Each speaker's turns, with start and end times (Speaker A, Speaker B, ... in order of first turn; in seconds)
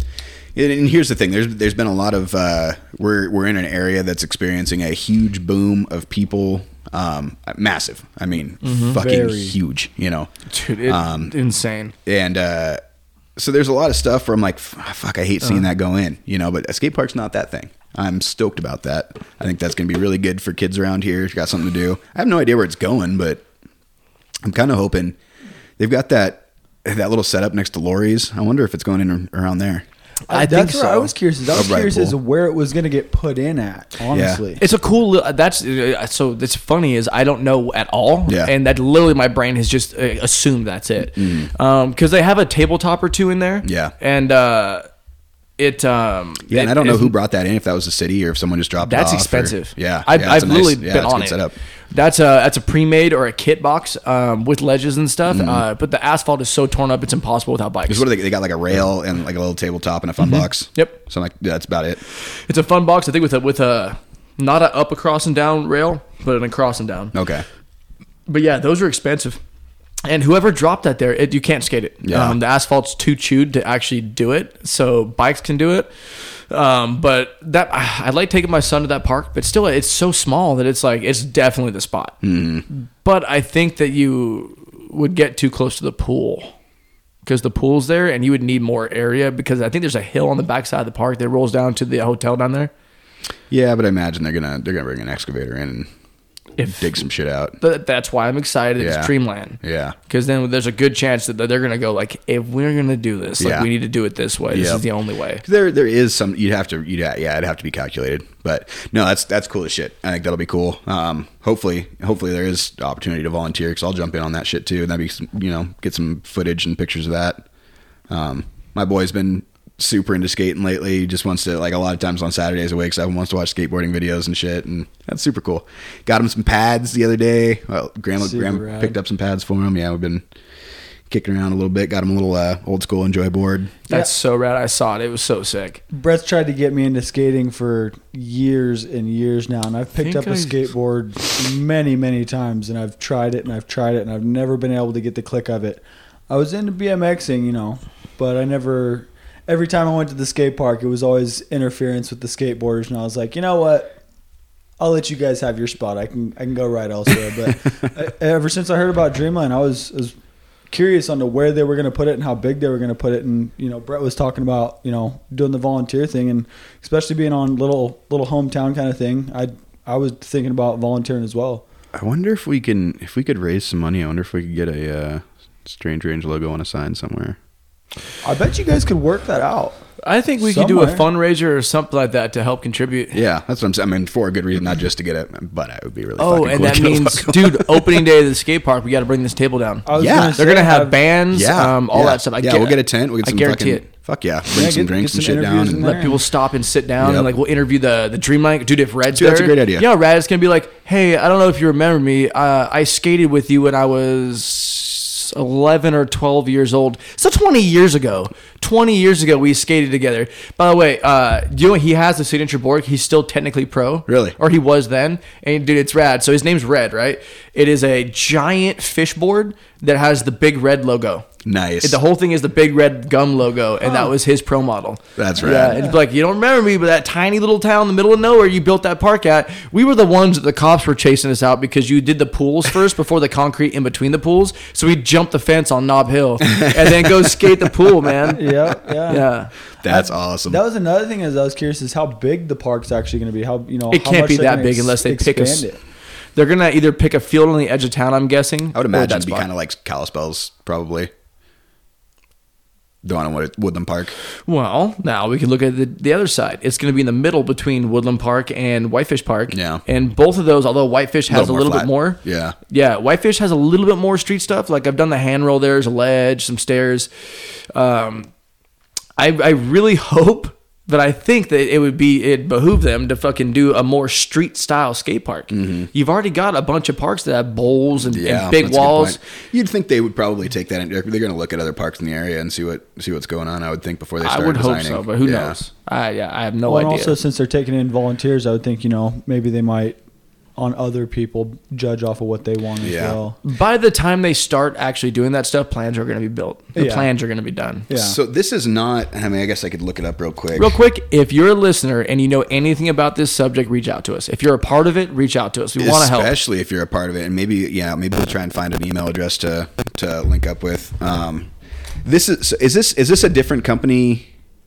Speaker A: 0.6-10.3, 10.8-11.3, 12.1-12.8, 13.4-23.4, 24.4-25.2, 25.8-29.9, 31.5-32.2, 34.1-34.4, 38.3-38.5, 41.2-41.5, 43.6-43.9, 46.5-51.5, 55.3-55.6, 57.9-62.0, 67.1-67.4, 72.0-72.4, 82.2-82.6, 93.5-95.9, 96.7-97.6, 98.8-100.0, 103.4-103.7, 104.5-104.8, 105.4-117.4, 118.1-130.2, 131.1-133.7, 171.9-177.4, 183.1-188.0, 190.0-190.4, 191.3-196.0, 197.0-197.3, 199.1-199.8, 214.1-214.4, 221.4-222.0, 225.2-225.8, 239.8-240.6, 248.7-251.1, 253.0-254.1, 259.5-259.8, 261.3-262.6, 275.5-275.9, 278.1-285.6, 292.8-293.2, 297.9-300.7, 305.8-311.5, 312.1-314.3
Speaker B: 8.6-9.0, 10.5-11.9, 30.3-31.1, 34.6-44.9, 45.6-47.1, 48.9-51.4, 51.9-58.1, 60.2-61.0, 62.5-67.1, 68.3-69.4, 70.0-75.9, 76.5-82.2, 82.7-86.5, 87.2-92.7, 96.6-97.0, 97.6-105.4, 133.9-135.8, 140.0-140.6, 180.0-183.2, 186.2-193.8, 195.8-221.3, 221.8-238.5, 239.1-239.5, 243.9-245.7, 246.4-249.5, 254.5-267.1, 267.7-268.3, 269.2-279.2, 284.2-287.2, 293.4-297.9, 300.6-306.3
Speaker C: 8.9-9.6, 30.3-34.6, 128.2-129.0, 135.9-154.0, 154.8-160.2, 160.7-171.6, 178.2-179.8, 180.4-181.1, 189.9-191.0, 194.5-196.2, 225.6-225.9, 238.3-239.3, 239.8-245.8, 286.7-290.0, 290.6-293.4, 296.8-297.1, 297.9-298.2